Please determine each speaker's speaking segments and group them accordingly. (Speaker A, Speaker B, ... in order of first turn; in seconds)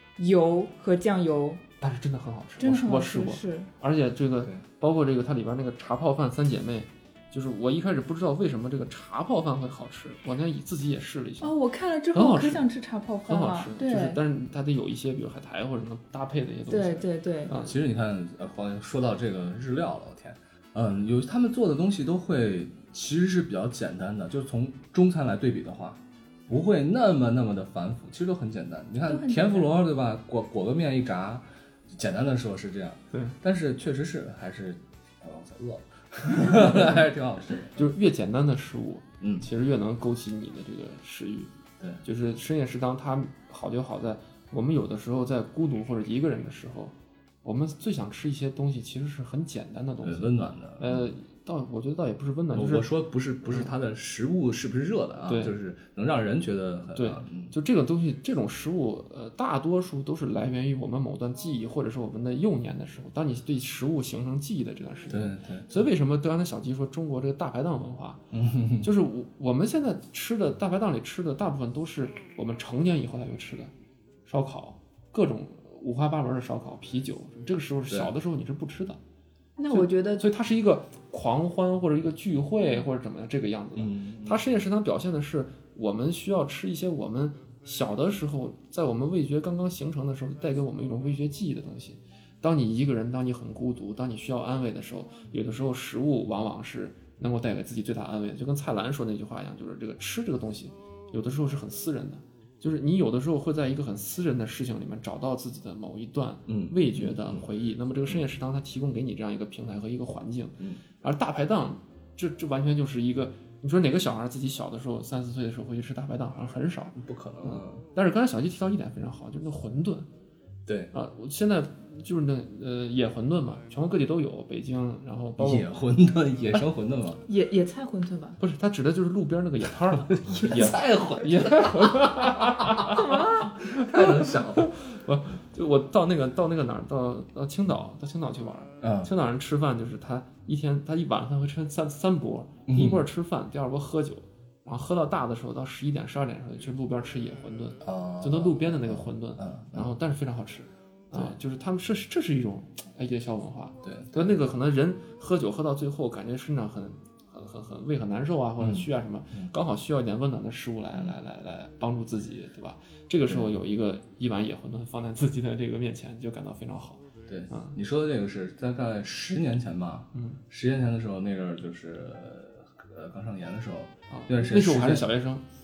Speaker A: 0.2-1.6, 2.6-3.7, 11.4-14.2, 16.7-17.5, 29.0-29.7, 79.6-80.3, 127.3-128.4, 132.9-133.5
Speaker B: 1.8-11.5, 12.1-12.6, 13.2-17.8, 37.8-41.5, 42.0-52.9, 55.2-55.5, 57.0-68.2, 68.8-73.7, 74.2-79.0, 79.7-120.1, 120.9-125.7, 128.4-167.8, 170.1-170.4, 174.1-175.4
Speaker C: 17.6-37.8, 39.2-39.5, 50.0-51.1, 52.5-57.5, 65.1-65.7, 68.3-68.9, 83.8-84.4, 106.5-107.5, 117.0-117.8, 120.7-120.9, 125.4-127.2, 130.1-134.7, 138.8-139.1, 142.7-143.0, 147.8-149.9, 153.8-154.3, 158.6-159.5, 167.3-175.1